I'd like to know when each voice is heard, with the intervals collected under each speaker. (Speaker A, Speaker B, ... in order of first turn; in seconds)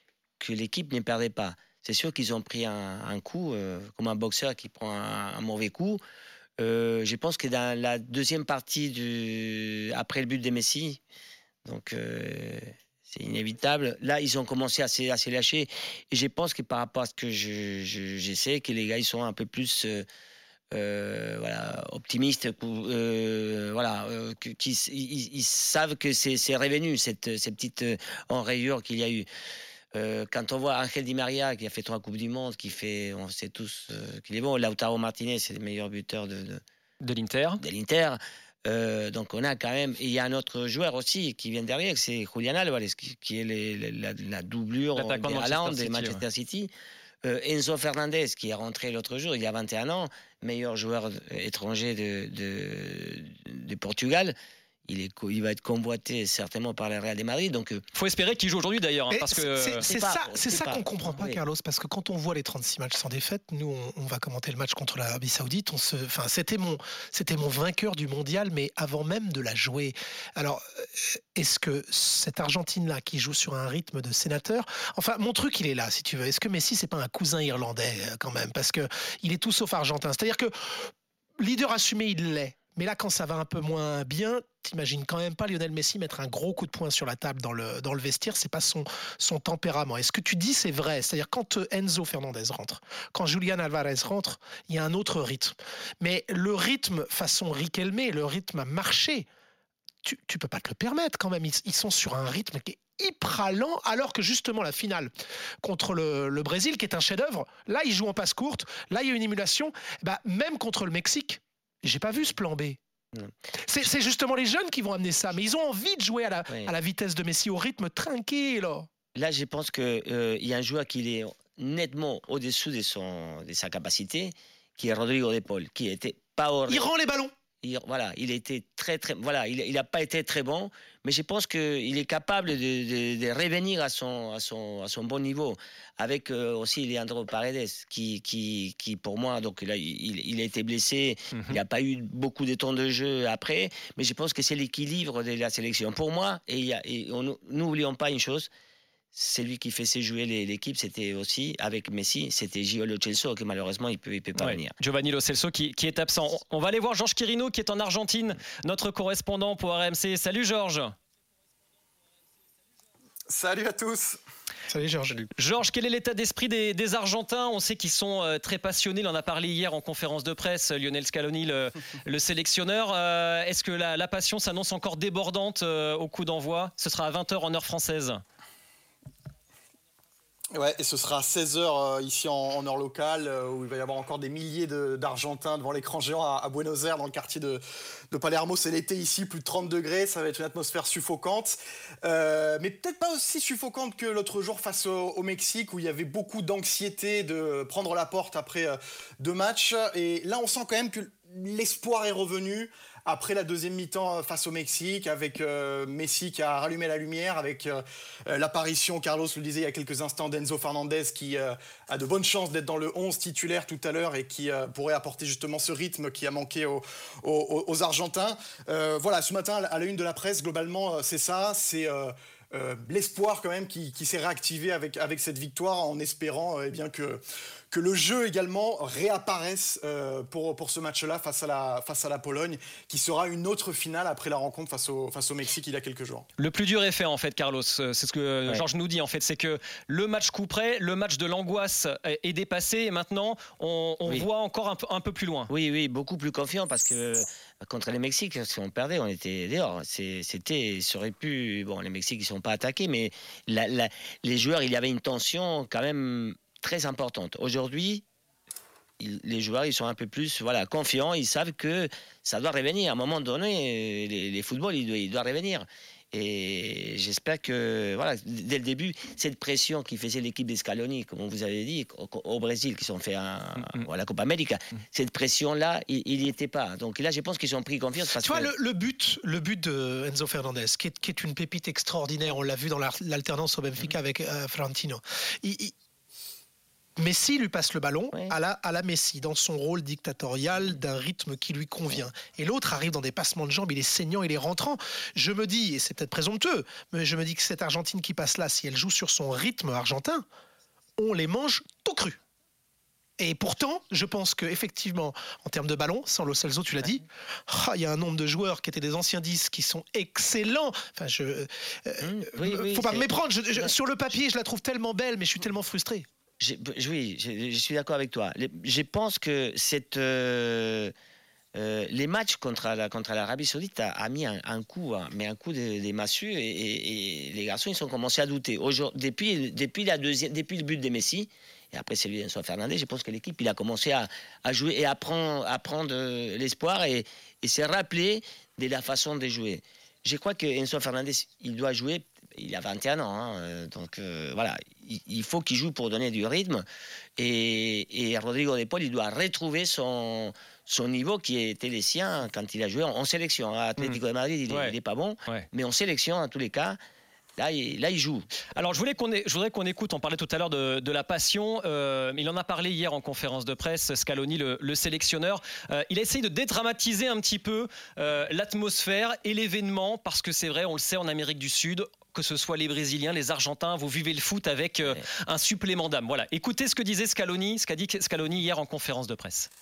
Speaker A: 0.4-6.0, 6.6-11.0, 11.7-20.1, 20.7-29.3, 29.9-36.6, 37.6-46.7, 47.2-57.8, 59.9-61.4, 116.5-116.7, 119.2-126.9, 127.6-148.5, 149.1-154.7, 245.5-258.0, 259.0-278.5, 312.0-313.7, 316.4-320.9, 321.5-346.6, 347.2-356.8, 357.4-358.3
Speaker B: 37.0-37.6, 45.0-46.2, 57.9-59.8, 141.3-141.6, 154.4-160.9, 165.3-178.2, 236.4-245.5, 353.8-354.8, 358.6-379.5
Speaker C: 59.1-80.5, 81.4-99.3, 100.0-112.8, 113.6-118.9, 126.7-127.3, 164.7-165.2, 278.1-285.7, 287.0-300.2, 301.0-302.2, 303.2-316.1
Speaker D: 163.3-164.2, 180.5-236.3